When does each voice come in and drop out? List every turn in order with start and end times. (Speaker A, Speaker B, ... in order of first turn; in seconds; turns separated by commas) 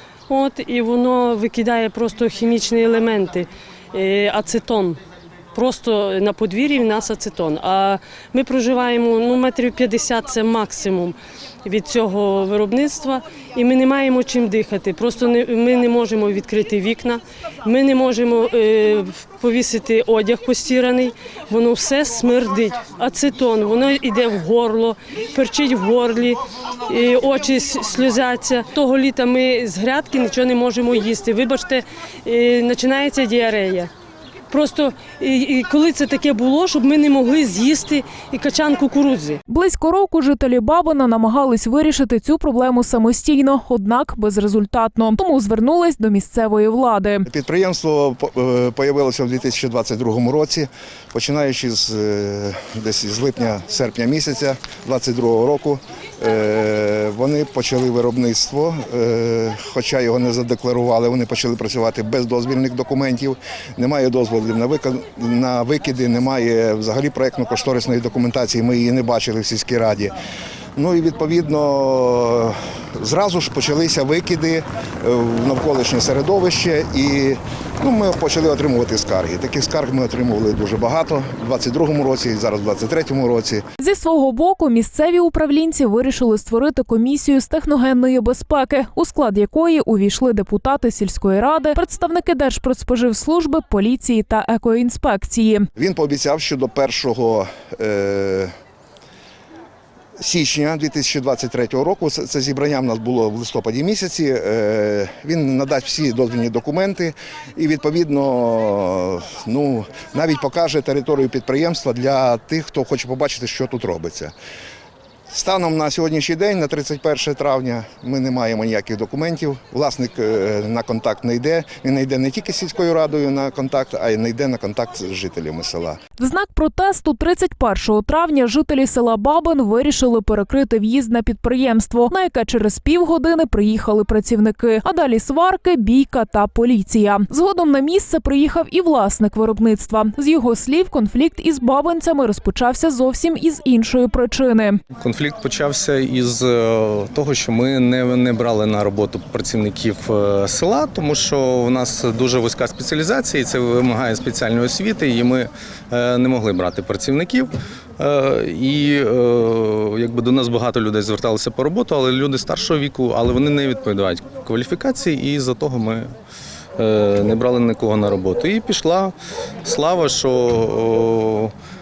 Speaker A: 0.3-5.0, Speaker A: 5.5-33.9, Speaker A: 34.5-39.4, Speaker B: 39.5-47.2, Speaker C: 47.2-70.1, Speaker C: 70.8-83.6, Speaker B: 83.8-95.7, Speaker C: 95.8-98.5, Speaker C: 100.2-114.3, Speaker C: 115.3-126.0, Speaker B: 126.2-144.8, Speaker D: 144.9-166.1, Speaker D: 166.8-171.5